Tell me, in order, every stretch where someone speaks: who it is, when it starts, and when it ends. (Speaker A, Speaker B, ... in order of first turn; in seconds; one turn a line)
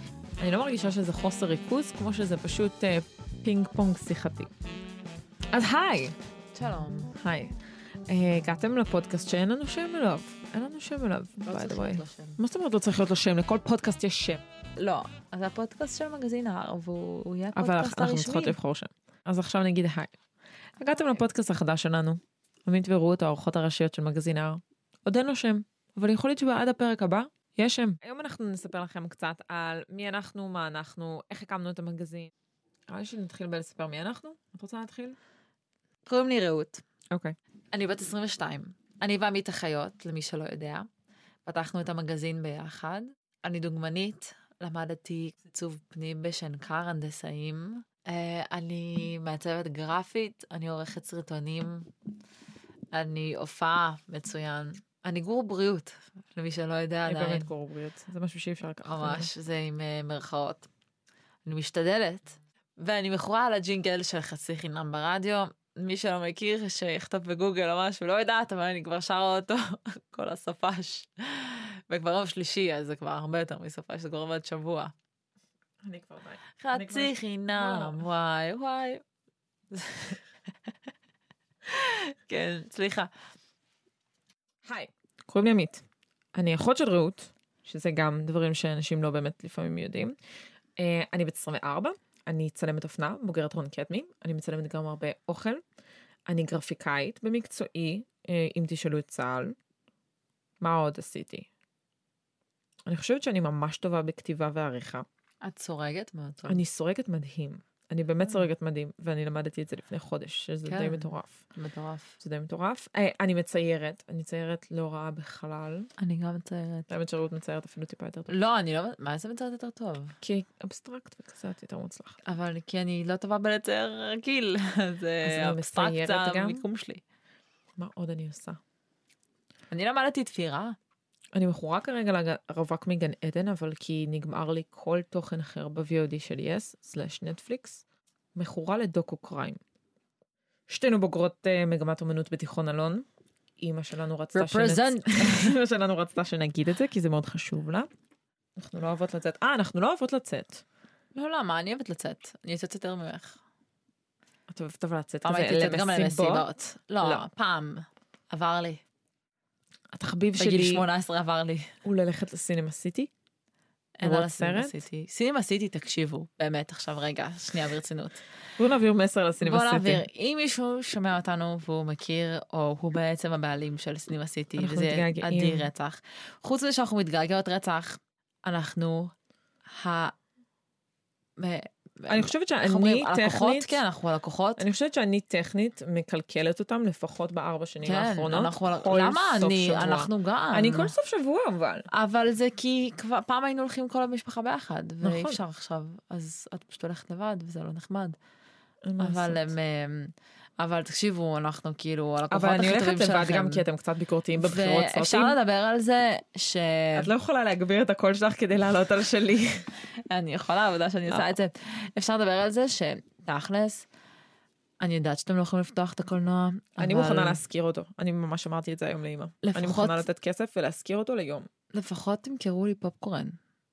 Speaker A: 0.4-4.5
Speaker A: 5.5-6.2
Speaker B: 6.5-7.1
Speaker A: 7.2-7.6
Speaker A: 8.1-14.4
Speaker B: 11.4-12.4
Speaker B: 14.8-18.6
Speaker A: 17.6-20.1
Speaker A: 20.8-32.3
Speaker A: 32.9-35.2
Speaker B: 36.1-36.8
Speaker B: 37.7-40.9
Speaker B: 41.5-51.9
Speaker B: 52.9-57.5
Speaker A: 57.1-59.3
Speaker B: 58.9-60.7
Speaker B: 61.5-74.9
Speaker A: 75.8-78.0
Speaker B: 76.6-79.0
Speaker B: 79.7-80.2
Speaker B: 81.7-83.1
Speaker A: 84.6-85.8
Speaker A: 86.3-90.2
Speaker A: 90.8-95.6
Speaker A: 96.3-99.5
Speaker A: 100.6-101.5
Speaker A: 102.8-105.0
Speaker B: 105.4-106.6
Speaker A: 106.5-111.4
Speaker B: 110.7-112.2
Speaker A: 112.2-115.9
Speaker B: 116.0-116.9
Speaker A: 116.9-118.3
Speaker B: 118.3-120.2
Speaker A: 120.2-122.2
Speaker B: 122.2-127.0
Speaker A: 125.2-126.6
Speaker A: 127.8-128.6
Speaker B: 129.7-130.8
Speaker A: 131.3-137.8
Speaker A: 138.3-139.6
Speaker A: 140.7-143.0
Speaker A: 143.6-147.9
Speaker B: 144.3-145.6
Speaker A: 148.6-150.6
Speaker B: 151.1-153.4
Speaker A: 154.5-156.5
Speaker B: 155.2-158.8
Speaker A: 159.9-160.8
Speaker B: 160.4-161.7
Speaker A: 161.8-163.1
Speaker B: 164.0-168.2
Speaker A: 164.0-164.7
Speaker A: 168.6-170.1
Speaker B: 169.4-179.1
Speaker A: 174.6-175.7
Speaker B: 179.7-180.1
Speaker B: 181.4-184.7
Speaker A: 182.1-183.8
Speaker A: 184.6-191.9
Speaker B: 187.8-190.9
Speaker B: 191.9-198.2
Speaker A: 195.0-195.4
Speaker A: 198.8-199.5
Speaker B: 199.0-203.6
Speaker A: 202.3-205.3
Speaker B: 204.4-207.1
Speaker A: 206.9-209.7
Speaker B: 209.9-213.9
Speaker A: 211.1-211.3
Speaker B: 214.8-217.4
Speaker A: 216.8-221.5
Speaker B: 219.4-220.1
Speaker B: 221.7-223.4